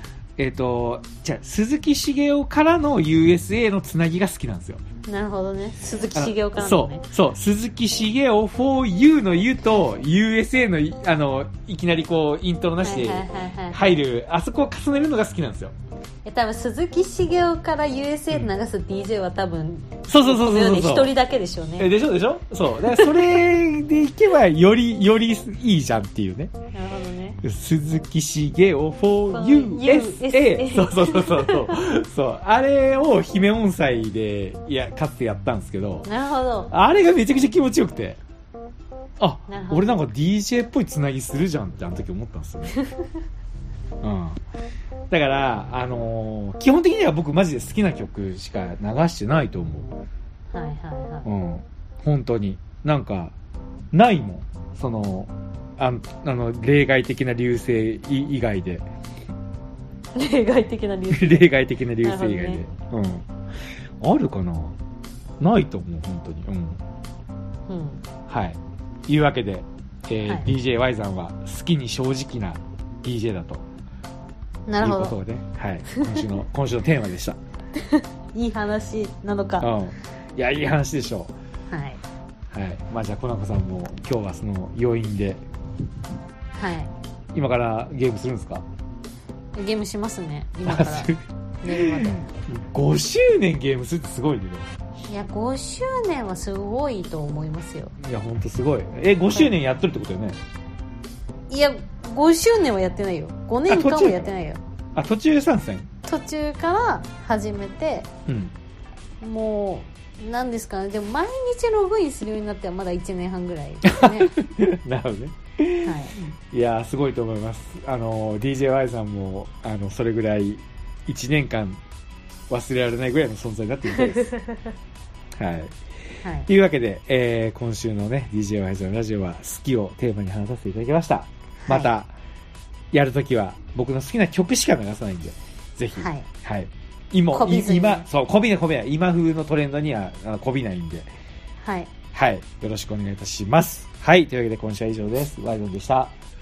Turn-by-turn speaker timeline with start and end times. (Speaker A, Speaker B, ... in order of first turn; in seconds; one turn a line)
Speaker A: 0.4-4.8
Speaker B: 5.1-7.0
Speaker A: 6.1-15.7
Speaker B: 12.8-14.0
Speaker B: 16.2-21.9
Speaker A: 20.1-21.1
Speaker A: 21.8-26.5
Speaker B: 22.8-23.1
Speaker B: 26.7-27.4
Speaker A: 27.4-36.1
Speaker B: 29.3-31.7
Speaker B: 36.0-36.7
Speaker A: 36.7-38.2
Speaker A: 39.2-42.8
Speaker B: 39.5-39.9
Speaker B: 42.7-43.0
Speaker A: 44.0-44.4
Speaker A: 45.1-49.9
Speaker B: 50.5-51.3
Speaker A: 51.2-53.3
Speaker A: 53.9-58.8
Speaker B: 60.1-61.5
Speaker A: 61.1-63.2
Speaker B: 62.0-62.6
Speaker A: 64.0-64.8
Speaker A: 65.4-66.8
Speaker B: 67.7-68.0
Speaker A: 68.3-73.6
Speaker B: 74.7-75.2
Speaker A: 74.8-77.4
Speaker B: 75.9-76.2
Speaker B: 77.8-79.7
Speaker A: 79.6-81.3
Speaker B: 81.7-82.0
Speaker A: 82.5-85.4
Speaker B: 86.5-86.9
Speaker A: 87.3-88.6
Speaker B: 89.5-92.3
Speaker A: 90.6-94.7
Speaker B: 95.1-97.9
Speaker A: 98.0-100.4
Speaker B: 101.5-104.6
Speaker A: 103.7-104.3
Speaker A: 105.0-105.9
Speaker B: 106.0-108.1
Speaker A: 108.3-108.5
Speaker B: 109.2-114.3
Speaker A: 113.8-121.8
Speaker B: 115.8-116.2
Speaker A: 122.5-124.3
Speaker B: 124.0-124.7
Speaker A: 125.3-125.7
Speaker B: 126.2-126.5
Speaker A: 126.5-132.1
Speaker B: 131.6-131.9
Speaker A: 132.9-141.1
Speaker B: 136.0-136.3
Speaker B: 137.3-138.1
Speaker B: 141.6-141.9
Speaker A: 142.1-146.1